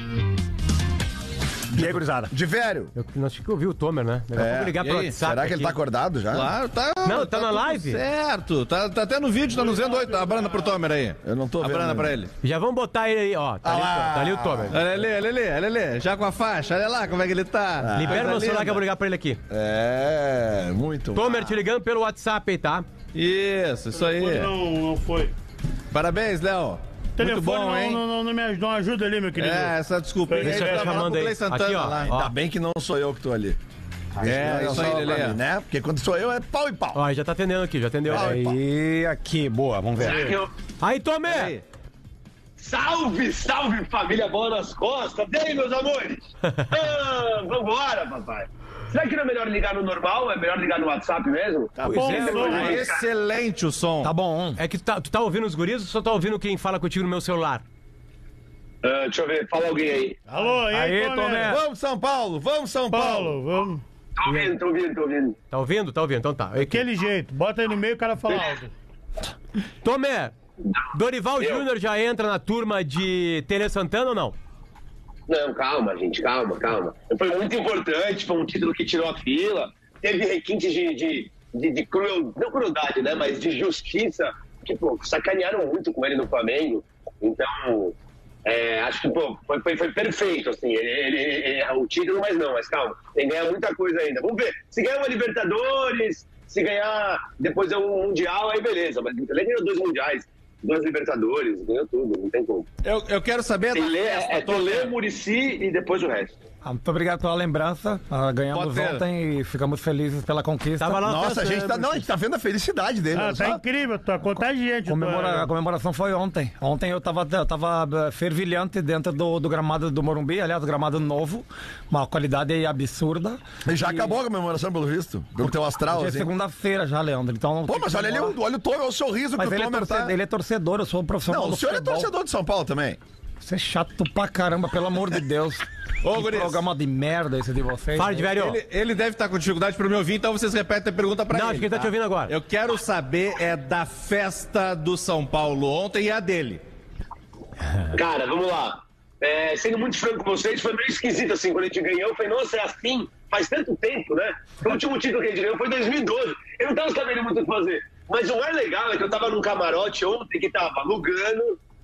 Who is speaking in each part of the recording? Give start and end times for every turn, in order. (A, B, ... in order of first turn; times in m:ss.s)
0:01.7-0:02.3 A
0:01.8-0:02.9 B
0:02.9-0:05.8 C
0:04.3-0:06.5 B
0:04.8-0:05.1 D
0:06.3-0:12.3 D
0:07.0-0:08.0 C
0:11.2-0:12.1 B
0:12.4-0:14.8 C
0:13.6-0:14.8 B
0:14.7-0:18.8 D
0:17.8-0:18.4 B
0:18.0-0:19.4 C
0:19.5-0:21.6 B
0:21.1-0:22.9 C
0:23.1-0:24.5 D
0:24.0-0:25.3 E
0:25.9-0:28.0 D
0:27.2-0:29.7 E
0:29.4-0:32.1 D
0:30.3-0:31.1 E
0:30.4-0:32.3 C
0:32.1-0:33.6 B
0:34.2-0:37.0 B
0:34.2-0:35.4 D
0:36.9-0:38.5 C
0:38.1-0:38.6 B
0:38.1-0:40.3 A
0:40.0-0:40.5 F
0:40.8-0:41.5 C
0:41.2-0:41.6 D
0:42.6-0:53.1 F
0:51.8-0:52.8 E
0:51.8-0:52.8 C
0:52.2-0:54.1 D
0:54.0-0:54.6 A
0:54.6-0:57.6 C
0:58.8-1:00.2 F
1:00.3-1:01.6 E
1:00.7-1:01.6 A
1:01.4-1:03.4 B
1:02.9-1:03.8 E
1:04.2-1:05.4 F
1:05.5-1:06.9 C
1:06.6-1:08.7 E
1:08.3-1:08.5 F
1:09.8-1:10.3 C
1:10.9-1:14.4 C
1:11.4-1:11.6 F
1:15.3-1:42.7 F
1:42.8-1:44.9 D
1:43.7-1:46.3 F
1:46.6-1:51.2 A
1:48.5-1:49.0 D
1:50.8-1:52.1 C
1:51.0-1:53.6 B
1:53.1-1:55.5 E
1:54.9-2:04.2 A
2:03.6-2:06.3 B
2:05.4-2:08.4 A
2:07.7-2:10.1 B
2:09.4-2:12.1 A
2:11.3-2:13.0 B
2:13.4-2:18.3 A
2:16.0-2:16.6 D
2:18.0-2:18.6 C
2:18.3-2:26.6 D
2:21.3-2:22.3 C
2:27.9-2:41.6 F